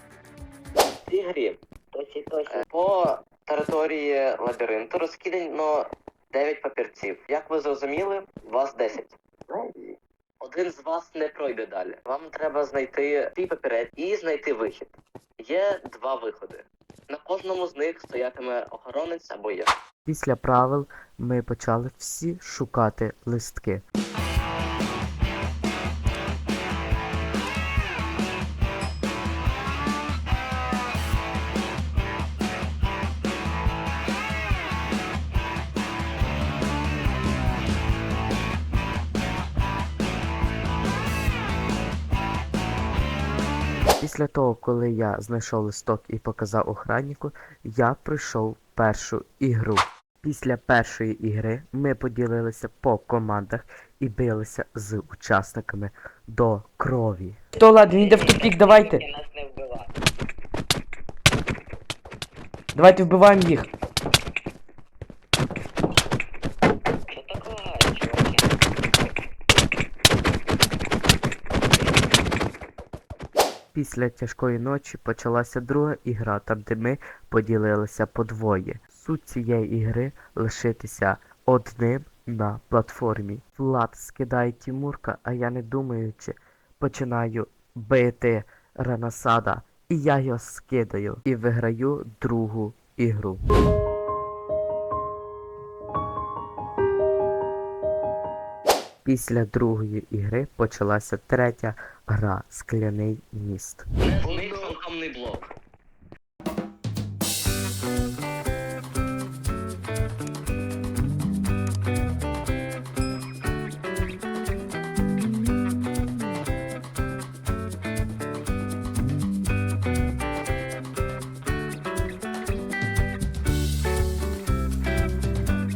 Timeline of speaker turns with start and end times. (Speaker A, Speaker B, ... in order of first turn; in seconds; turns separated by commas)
Speaker A: 1.1-1.6, Speaker B: 1.9-2.6, Speaker A: 2.5-9.1, Speaker A: 10.4-19.7, Speaker C: 20.1-23.8, Speaker C: 44.0-59.0, Speaker B: 57.6-59.9, Speaker C: 62.7-63.7, Speaker B: 67.1-68.5, Speaker C: 73.7-93.4, Speaker C: 99.0-103.8, Speaker A: 104.0-105.5, Speaker B: 104.2-104.8